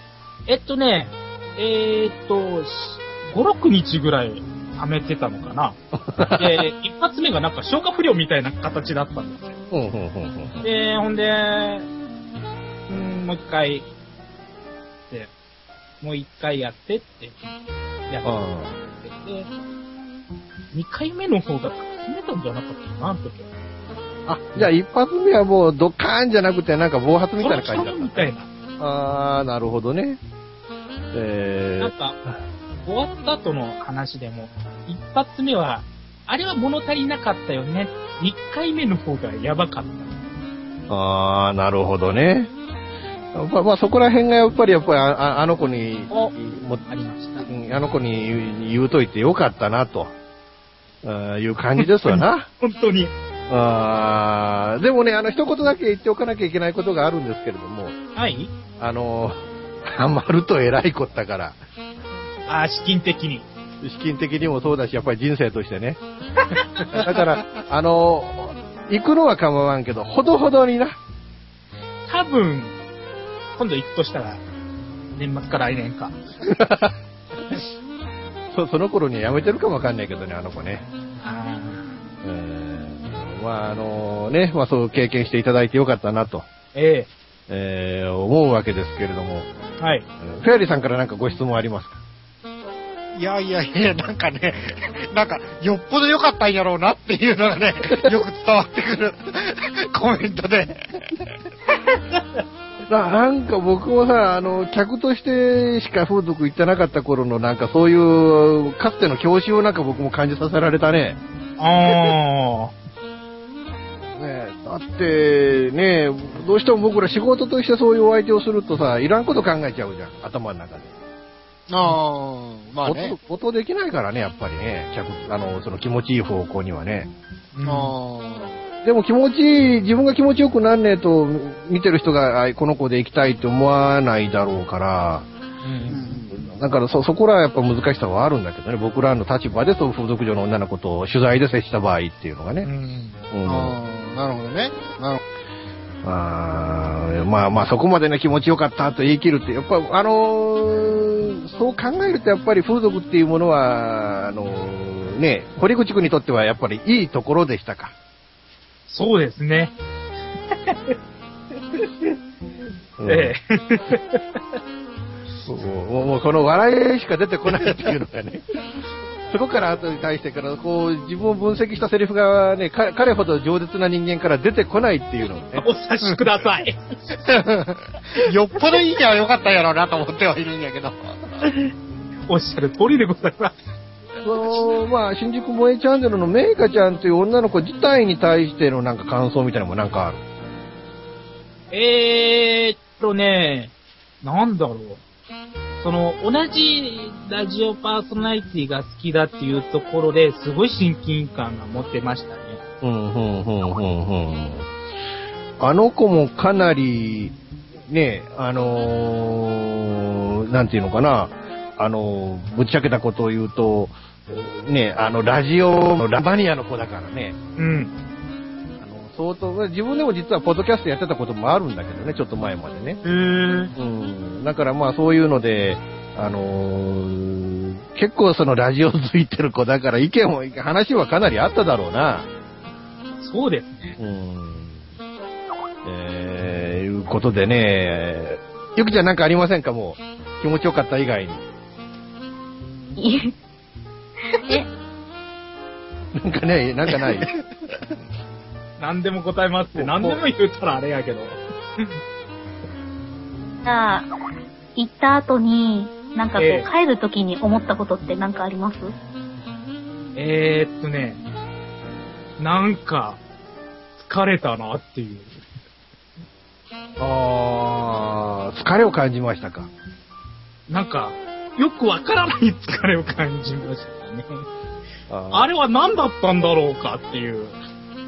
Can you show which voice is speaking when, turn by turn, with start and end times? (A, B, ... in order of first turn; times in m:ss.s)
0:00.5-0:05.8 A
0:05.9-0:06.6 B
0:06.4-0:09.6 A
0:09.7-0:10.6 B
0:10.6-0:11.9 A
0:12.9-0:13.8 A
0:16.0-0:17.5 A
0:18.1-0:19.5 A
0:18.2-0:18.8 B
0:20.7-0:23.5 A
0:24.2-0:30.2 B
0:27.4-0:28.5 A
0:31.1-0:32.4 B
0:31.8-0:32.2 A
0:32.8-0:40.2 A
0:40.9-0:42.5 B
0:43.3-0:46.8 B
0:46.9-0:47.5 A
0:47.4-0:50.1 B
0:51.0-0:52.5 B
0:51.8-0:53.1 A
0:53.5-0:58.0 B
0:58.1-0:58.5 A
0:58.8-1:01.6 B
1:02.5-1:03.4 A
1:03.8-1:06.0 B
1:06.5-1:07.0 A
1:06.8-1:11.0 B
1:12.1-1:12.8 A
1:13.6-1:14.4 A
1:15.1-1:16.2 A
1:16.4-1:17.0 B
1:18.5-1:20.8 B
1:21.2-1:21.9 A
1:22.2-1:26.4 B
1:26.7-1:27.1 A
1:27.5-1:29.5 B
1:29.8-1:30.1 A
1:30.2-1:32.0 B
1:33.2-1:40.8 C
1:41.9-1:42.4 A
1:42.9-1:51.2 B
1:51.6-1:52.7 A
1:51.8-1:52.1 B
1:54.0-2:00.9 B
2:01.7-2:03.1 C
2:02.8-2:07.1 B
2:07.5-2:07.9 A
2:07.6-2:08.6 C
2:08.8-2:15.3 B
2:15.6-2:16.0 A
2:15.9-2:16.4 C
2:16.3-2:22.7 B
2:22.6-2:23.2 A
2:23.3-2:23.7 B
2:23.4-2:25.2 C
2:26.0-2:37.9 B
2:38.9-2:39.7 A
2:40.5-2:41.0 A
2:43.0-2:43.3 B
2:43.0-2:44.4 A
2:45.4-2:48.4 B
2:49.3-2:55.6 B
2:55.5-2:56.8 A
2:57.2-3:01.1 C
3:02.3-3:03.6 A
3:04.2-3:10.2 B
3:11.7-3:15.0 A
3:15.8-3:22.6 A
3:22.8-3:24.7 B
3:25.6-3:27.3 B
3:27.9-3:37.4 B
3:37.6-3:37.9 A
3:38.8-3:43.0 B
3:43.0-3:43.7 A
3:43.7-3:52.3 B
3:53.2-3:54.0 A
3:54.0-3:54.9 B
3:55.8-4:01.4 B
4:03.0-4:03.3 D
4:04.3-4:04.7 D
4:06.1-4:07.3 B
4:08.8-4:12.0 A
4:09.7-4:10.2 B
4:13.6-4:14.1 D
4:14.8-4:18.9 D
4:16.4-4:16.7 A
4:20.2-4:21.2 A
4:22.4-4:23.2 A
4:24.0-4:25.4 A
4:27.0-4:29.7 B
4:30.7-4:34.4 A
4:35.1-4:35.5 B
4:35.3-4:37.6 A